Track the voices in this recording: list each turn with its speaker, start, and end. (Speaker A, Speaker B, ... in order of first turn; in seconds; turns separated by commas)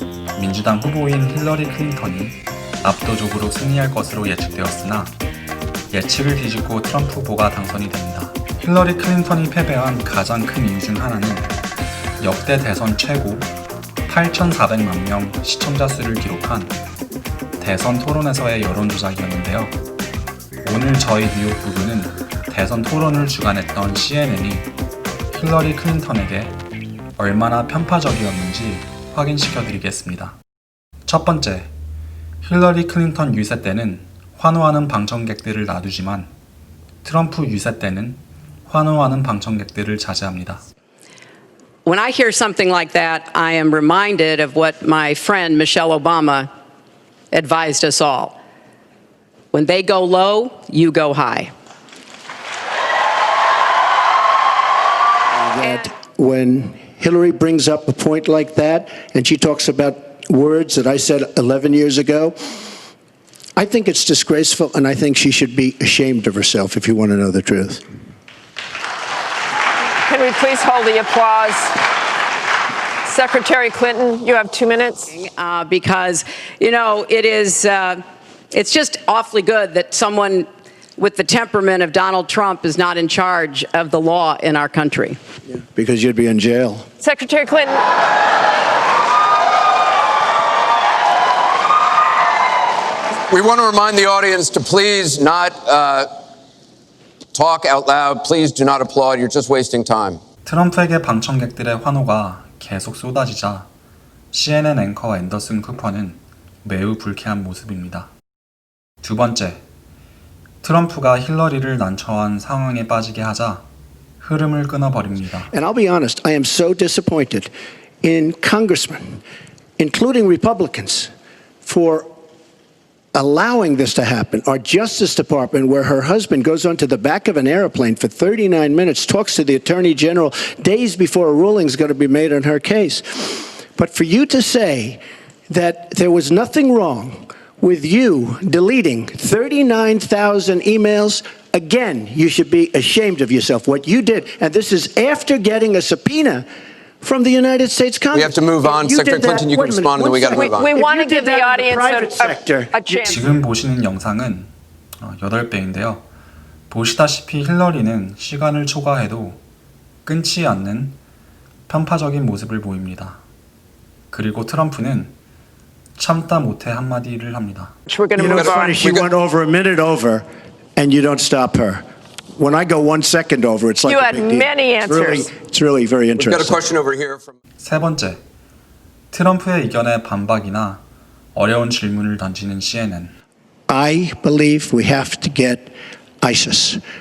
Speaker A: 0.3-5.2, Speaker A: 5.9-11.5, Speaker A: 12.2-13.5, Speaker A: 14.1-16.8, Speaker A: 17.6-19.8, Speaker A: 20.6-24.7, Speaker A: 25.3-26.6, Speaker A: 27.2-30.4, Speaker A: 31.1-31.7, Speaker A: 32.4-36.3, Speaker A: 37.0-40.6, Speaker B: 41.9-46.5, Speaker B: 47.3-48.4, Speaker B: 49.5-51.5, Speaker C: 55.4-62.4, Speaker B: 55.6-55.9, Speaker C: 63.6-67.8, Speaker D: 70.1-71.8, Speaker D: 73.0-75.1, Speaker B: 75.1-85.2, Speaker C: 85.5-86.9, Speaker D: 87.0-87.8, Speaker E: 93.3-96.1, Speaker E: 97.3-100.2, Speaker A: 100.5-103.7, Speaker A: 104.3-108.1, Speaker A: 109.0-109.6, Speaker A: 110.6-113.7, Speaker A: 114.2-115.5, Speaker C: 115.5-117.5, Speaker C: 118.0-119.2, Speaker C: 119.8-121.1, Speaker C: 121.6-122.1, Speaker C: 123.1-146.5, Speaker C: 147.0-153.2, Speaker E: 148.1-150.7, Speaker D: 150.3-153.3, Speaker A: 153.1-156.1, Speaker A: 156.7-159.4, Speaker A: 160.1-161.0, Speaker A: 161.7-163.2, Speaker A: 164.1-165.1, Speaker A: 166.0-167.7, Speaker D: 167.9-168.9, Speaker C: 168.2-170.2, Speaker E: 168.2-169.1, Speaker C: 170.8-171.8, Speaker C: 172.4-176.6, Speaker D: 173.9-175.3, Speaker E: 176.2-177.3, Speaker A: 177.6-178.2, Speaker A: 179.1-180.8, Speaker A: 181.3-183.1, Speaker C: 183.7-186.8